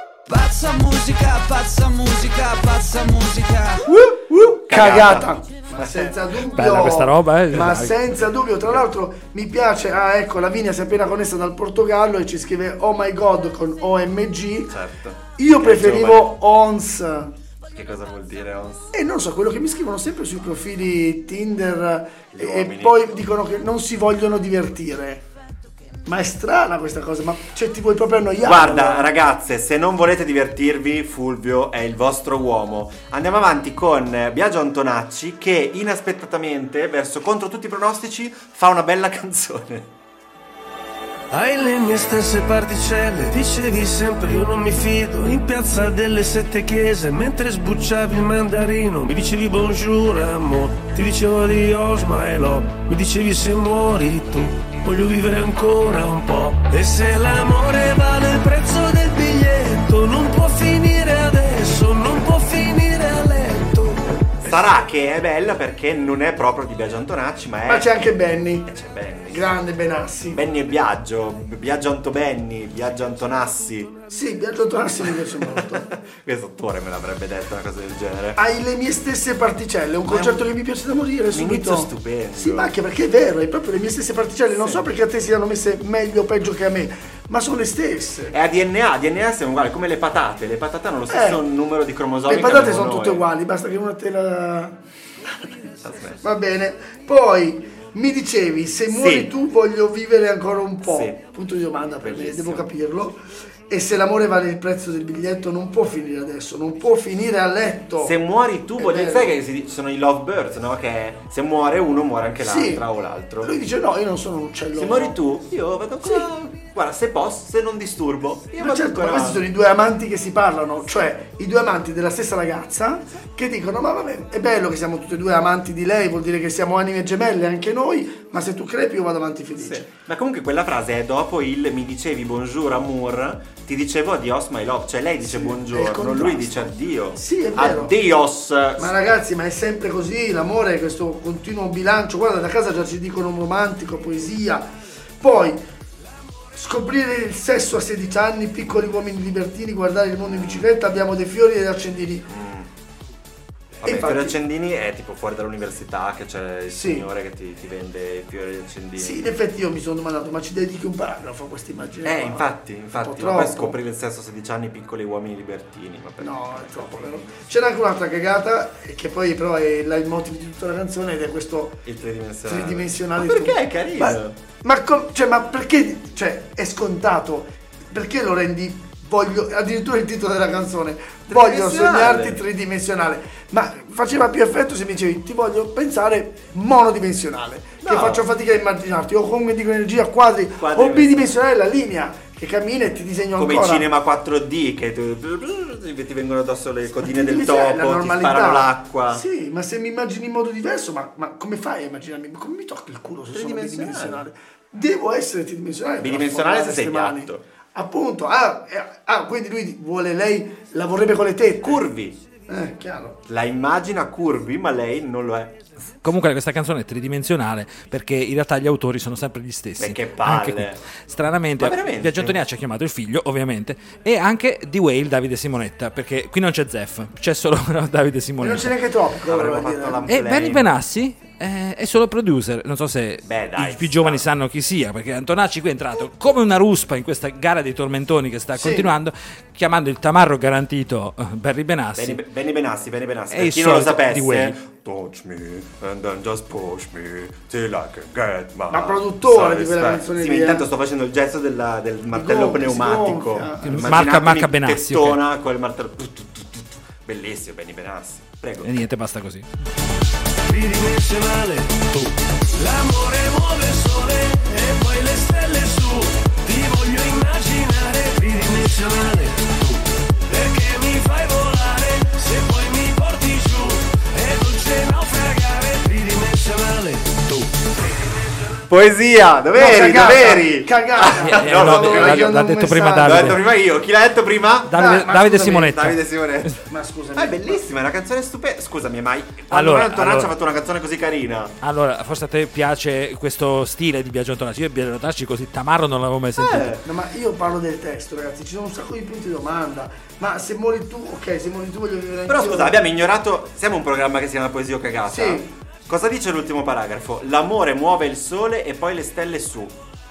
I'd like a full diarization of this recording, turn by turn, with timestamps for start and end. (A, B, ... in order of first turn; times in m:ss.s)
0:00.3-0:03.9 A
0:03.9-0:06.2 B
0:03.9-0:14.7 C
0:06.5-0:08.2 D
0:14.7-0:16.4 B
0:15.4-0:17.3 C
0:17.7-0:18.9 B
0:18.9-0:25.2 C
0:22.3-0:23.2 B
0:26.0-0:29.1 C
0:28.4-0:39.9 B
0:41.3-1:04.5 E
1:04.4-1:08.0 B
1:07.6-1:08.7 C
1:08.6-1:09.5 B
1:09.3-1:10.4 C
1:10.3-1:13.9 B
1:14.1-1:15.9 C
1:15.0-1:18.4 B
1:18.4-1:28.4 C
1:20.1-1:20.5 B
1:21.3-1:22.7 B
1:24.5-1:24.8 B
1:28.3-1:33.2 B
1:31.1-1:31.4 C
1:32.3-1:34.8 C
1:35.8-1:36.2 B
1:36.2-1:48.2 C
1:38.9-1:39.3 B
1:40.8-1:41.2 B
1:42.0-1:42.7 B
1:48.0-1:53.5 B
1:48.8-1:49.4 C
1:52.4-1:52.8 C
1:53.4-1:55.2 C
1:54.7-1:59.5 B
1:56.0-1:56.3 C
1:58.6-2:09.9 C
2:09.6-2:18.9 B
2:15.2-2:17.9 C
2:18.8-2:25.6 C
2:26.5-2:32.3 C
2:30.2-2:30.7 B
2:32.3-2:32.7 B
2:33.8-2:39.2 B
2:33.8-2:34.4 C
2:36.7-2:37.0 C
2:39.0-2:43.8 C
2:42.0-2:47.2 B
2:46.2-2:51.8 C
2:51.8-2:54.4 B
2:52.4-3:13.9 C
3:01.3-3:02.4 B
3:07.8-3:08.2 B
3:10.6-3:11.4 B
3:13.4-3:19.2 B
3:17.0-3:31.9 C
3:23.3-3:24.2 B
3:26.0-3:27.4 B
3:31.6-3:32.2 B
3:32.5-3:33.2 C
3:33.3-3:35.7 B
3:36.0-3:48.8 D
3:39.8-3:40.8 B
3:41.6-3:42.4 B
3:48.4-3:50.0 C
3:49.2-3:50.7 B
3:50.1-4:02.2 D
3:53.2-3:54.2 B
3:58.6-3:58.9 C
4:02.0-4:18.7 B
4:03.3-4:04.6 D
4:08.7-4:10.7 C
4:12.1-4:13.9 C
4:13.6-4:15.2 D
4:18.6-4:19.4 D
4:20.4-4:37.6 E
4:38.7-4:42.3 B
4:39.5-4:43.4 C
4:41.2-4:43.4 D
4:43.0-4:46.6 B
4:44.7-4:46.5 D
4:44.7-4:45.7 C
4:46.7-4:47.6 C
4:47.1-4:51.6 B
4:49.5-4:50.3 D
4:51.6-4:56.8 D
4:56.4-4:56.8 B
4:56.8-5:02.8 C
5:02.3-5:09.8 B
5:05.1-5:05.5 C